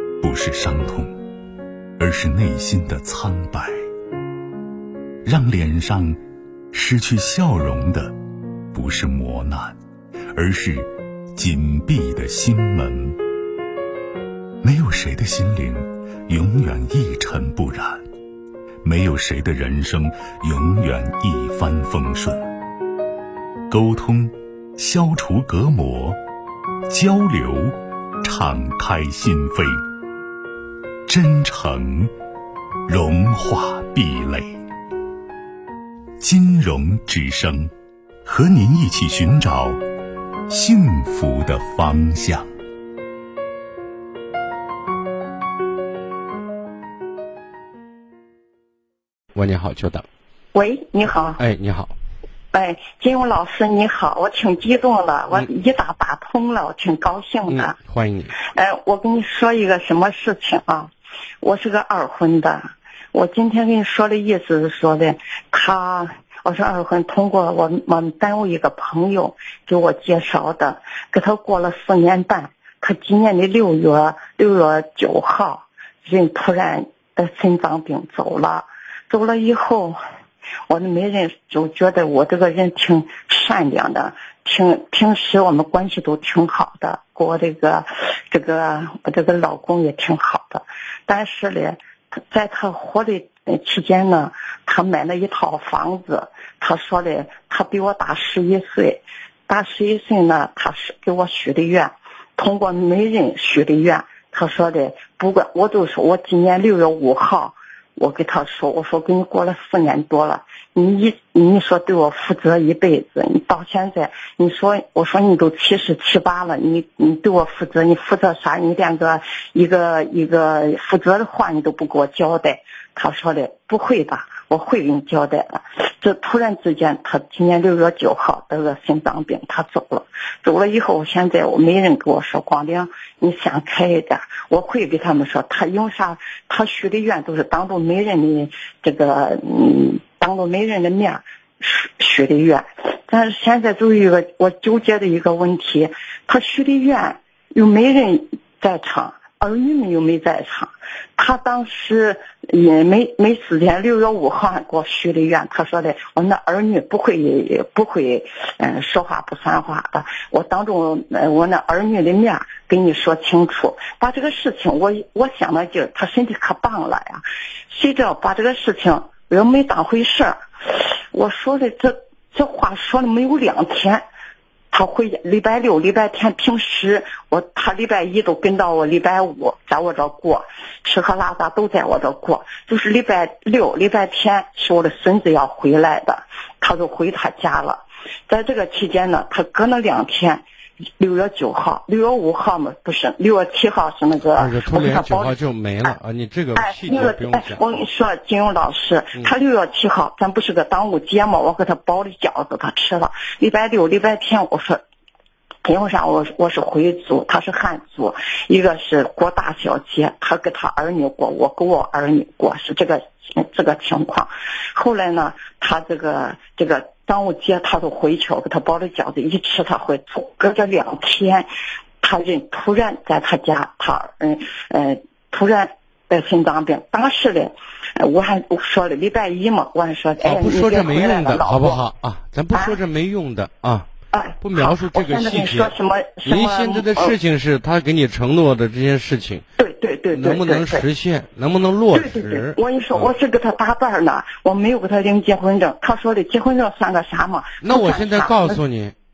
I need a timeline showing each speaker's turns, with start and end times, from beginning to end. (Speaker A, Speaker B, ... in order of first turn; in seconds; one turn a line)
Speaker A: 0.2-1.1
Speaker A: 2.0-3.8
Speaker A: 5.2-6.2
Speaker A: 6.7-8.1
Speaker A: 8.7-9.8
Speaker A: 10.3-13.2
Speaker A: 14.6-18.0
Speaker A: 18.8-22.5
Speaker A: 23.7-26.2
Speaker A: 26.9-29.8
Speaker A: 31.1-32.1
Speaker A: 32.9-34.6
Speaker A: 36.2-37.7
Speaker A: 38.2-39.8
Speaker A: 40.5-42.5
Speaker B: 49.4-50.1
Speaker C: 50.5-51.4
Speaker B: 51.4-51.9
Speaker C: 52.5-57.8
Speaker B: 57.5-58.3
Speaker C: 58.4-62.6
Speaker C: 63.1-80.0
Speaker C: 80.7-91.8
Speaker C: 92.3-174.0
Speaker C: 174.7-190.4
Speaker C: 191.0-195.4
Speaker B: 194.4-197.7
Speaker C: 196.6-204.8
Speaker C: 205.6-221.5
Speaker C: 222.0-231.8
Speaker B: 230.2-233.9
Speaker C: 232.5-232.8
Speaker C: 234.1-237.2
Speaker B: 234.4-239.4
Speaker C: 239.6-240.8
Speaker B: 240.1-243.1
Speaker C: 241.9-248.6
Speaker B: 247.6-248.9